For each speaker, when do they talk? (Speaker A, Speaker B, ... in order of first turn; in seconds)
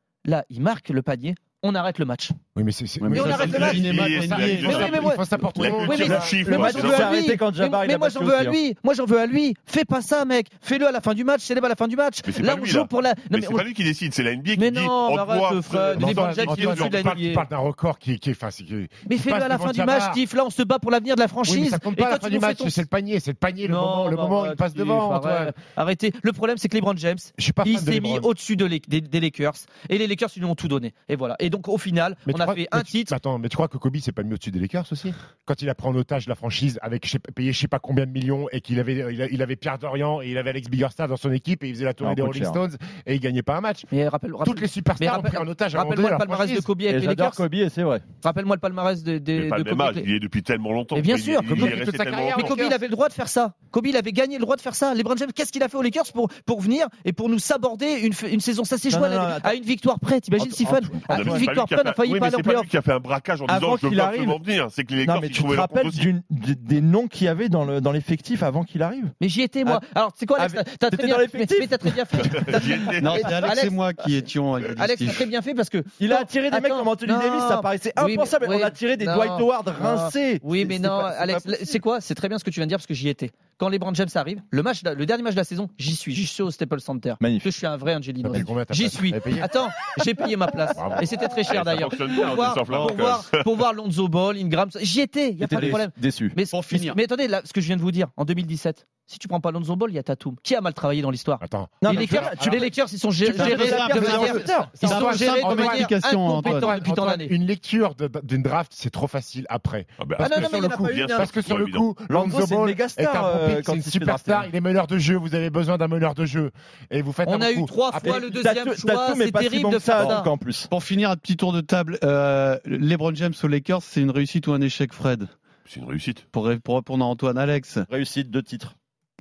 Speaker A: 0.2-2.3, 3.1-3.9, 4.6-13.6, 14.6-17.4, 19.1-22.8, 23.6-33.1, 43.9-47.4, 48.2-50.1, 50.9-51.8, 52.3-62.7, 69.2-73.8, 74.8-107.3, 110.2-111.3, 117.2-120.3
Speaker B: 2.5-6.7, 15.9-20.2, 21.5-25.5, 27.4-28.3, 32.3-43.9, 44.4-46.7, 51.4-52.8, 88.2-89.5, 90.7-91.1, 101.4-102.7, 103.4-118.2
Speaker C: 3.0-5.1, 73.0-75.2, 92.7-93.1, 96.5-97.0, 103.4-106.7, 120.7-125.3, 126.3-127.9
Speaker D: 3.2-7.1, 12.2-17.1, 49.3-52.6, 61.1-66.0, 72.3-73.3, 91.5-93.4, 110.0-111.8, 125.7-126.2
Speaker E: 6.4-8.6, 42.0-42.6, 46.9-48.0, 58.9-59.6, 60.4-61.5, 63.5-64.4, 65.0-69.8, 70.3-72.4, 76.0-81.5, 87.2-87.5, 95.4-96.4, 101.8-102.7, 103.3-104.8, 112.1-114.5, 118.0-120.7, 127.9-128.7